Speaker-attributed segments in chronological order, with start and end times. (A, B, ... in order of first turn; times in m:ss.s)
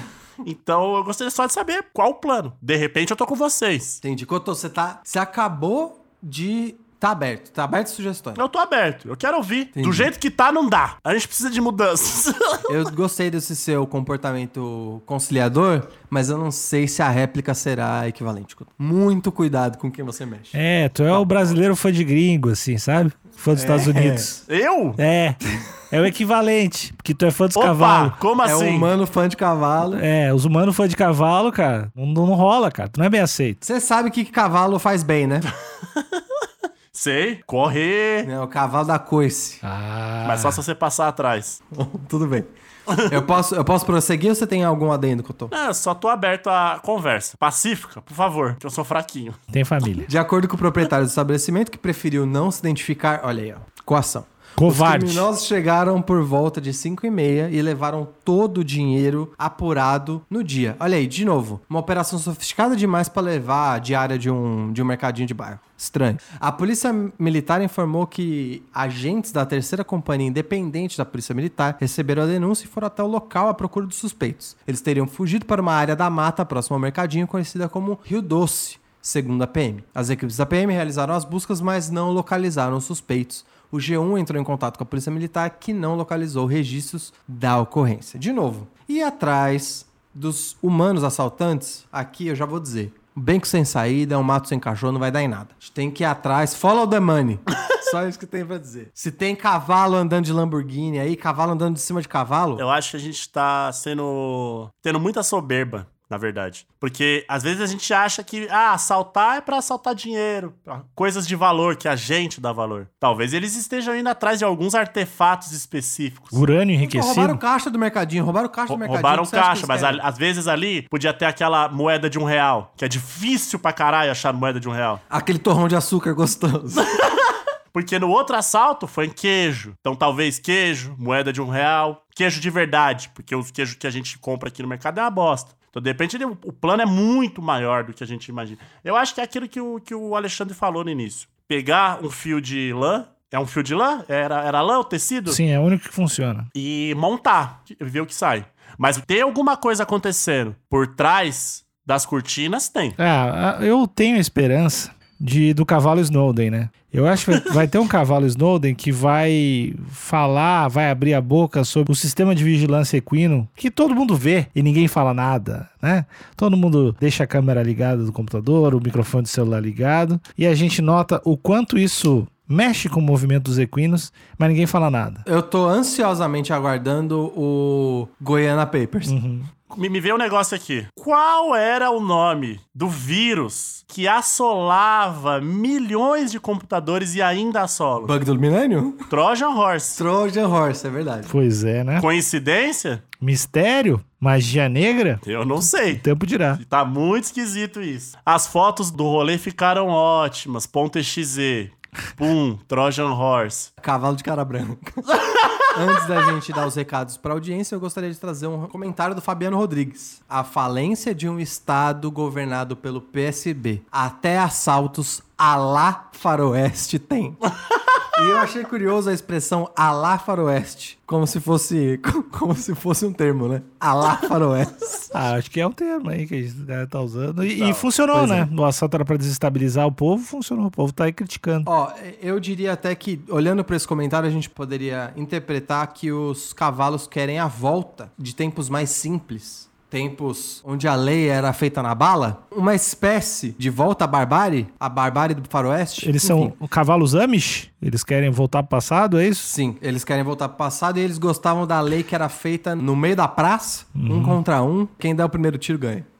0:00.4-0:04.0 A
0:04.0-0:08.4 B
0:08.3-0:12.7 A
0:09.7-0:10.1 B
0:12.7-0:20.6 B
0:20.5-0:24.4 C
0:21.1-0:21.6 A
0:23.5-0:24.3 B
0:24.5-0:25.0 A
0:25.0-0:28.2 C
0:27.5-0:28.9 A
0:28.4-0:30.0 B
0:29.8-0:33.6 C
0:33.6-0:35.5 B
0:36.9-0:38.3 A
0:38.2-0:39.6 B
0:39.6-0:40.6 C
0:40.2-0:41.6 A
0:41.7-0:42.5 B
0:43.0-0:45.5 B
0:45.5-0:49.4 A
0:49.5-0:50.1 C
0:50.0-1:42.6 B
0:54.6-0:55.2 C
1:42.6-1:56.4 A
1:56.3-1:57.4 C
1:56.8-2:00.0 B
1:58.7-2:05.0 A
2:05.1-2:06.8 B
2:07.7-2:25.4 A
2:25.3-2:26.5 C
2:26.5-2:33.0 A
2:33.0-2:55.2 C
2:55.2-2:59.2 B
2:59.0-2:59.5 C
2:59.7-3:08.1 A
3:08.0-3:09.1 B
3:09.1-3:10.0 A
3:09.9-3:11.3 B
3:11.2-3:12.0 C
3:12.0-3:13.0 A
3:13.2-3:15.2 C
3:15.2-3:23.7 A
3:15.8-3:16.6 C
3:23.8-3:25.1 B
3:25.7-3:37.4 B
3:38.1-3:45.1 B
3:45.1-3:51.7 C
3:47.4-3:47.9 A
3:48.1-3:48.5 B
3:51.6-4:06.6 B
4:06.0-4:09.5 C
4:09.4-4:16.0 B
4:13.9-4:14.4 C